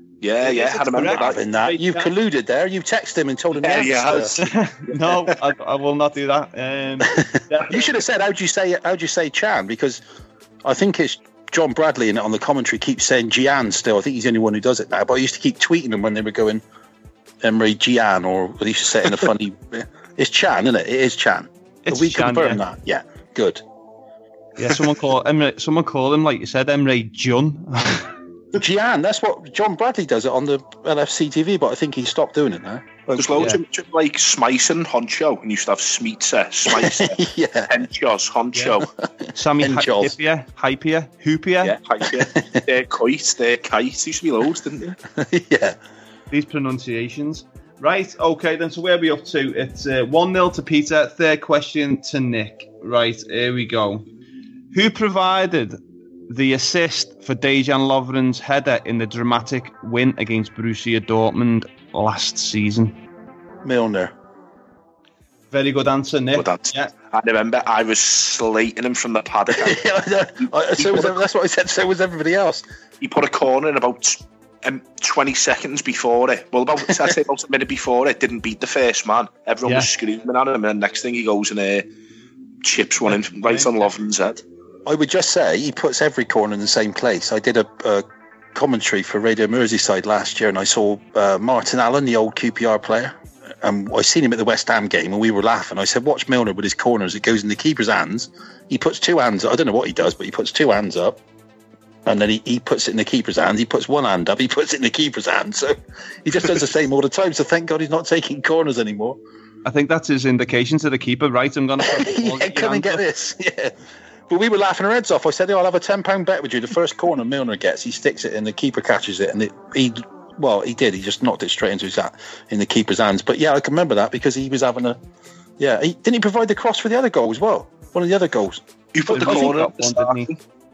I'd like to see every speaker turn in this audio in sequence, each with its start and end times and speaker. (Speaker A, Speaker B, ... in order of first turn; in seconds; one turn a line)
Speaker A: 0.2-1.4
Speaker B: 0.5-2.1
Speaker C: 1.0-4.3
Speaker A: 3.6-5.3
Speaker B: 4.4-7.9
Speaker C: 7.1-10.0
Speaker C: 10.6-16.6
Speaker C: 17.4-23.6
Speaker B: 21.9-22.6
Speaker B: 24.6-28.1
Speaker C: 28.6-33.6
Speaker A: 33.1-38.9
Speaker C: 36.6-37.7
Speaker B: 39.4-41.8
Speaker C: 39.6-40.1
Speaker A: 41.6-44.9
Speaker C: 42.1-42.6
Speaker C: 45.1-45.8
Speaker B: 46.3-54.0
Speaker B: 54.7-55.8
Speaker B: 56.3-62.9
Speaker C: 63.6-64.1
Speaker B: 65.5-66.9
Speaker A: 66.4-69.9
Speaker C: 69.5-72.6
Speaker A: 70.4-71.2
Speaker A: 73.0-81.8
Speaker A: 82.6-84.4
Speaker B: 83.4-83.9
Speaker C: 84.9-101.2
Speaker C: 102.1-109.2
Speaker B: 109.6-113.0
Speaker C: 111.8-113.7
Speaker C: 114.3-125.0
Speaker C: 125.6-129.6
Speaker A: 128.9-130.4
Speaker B: 129.1-130.3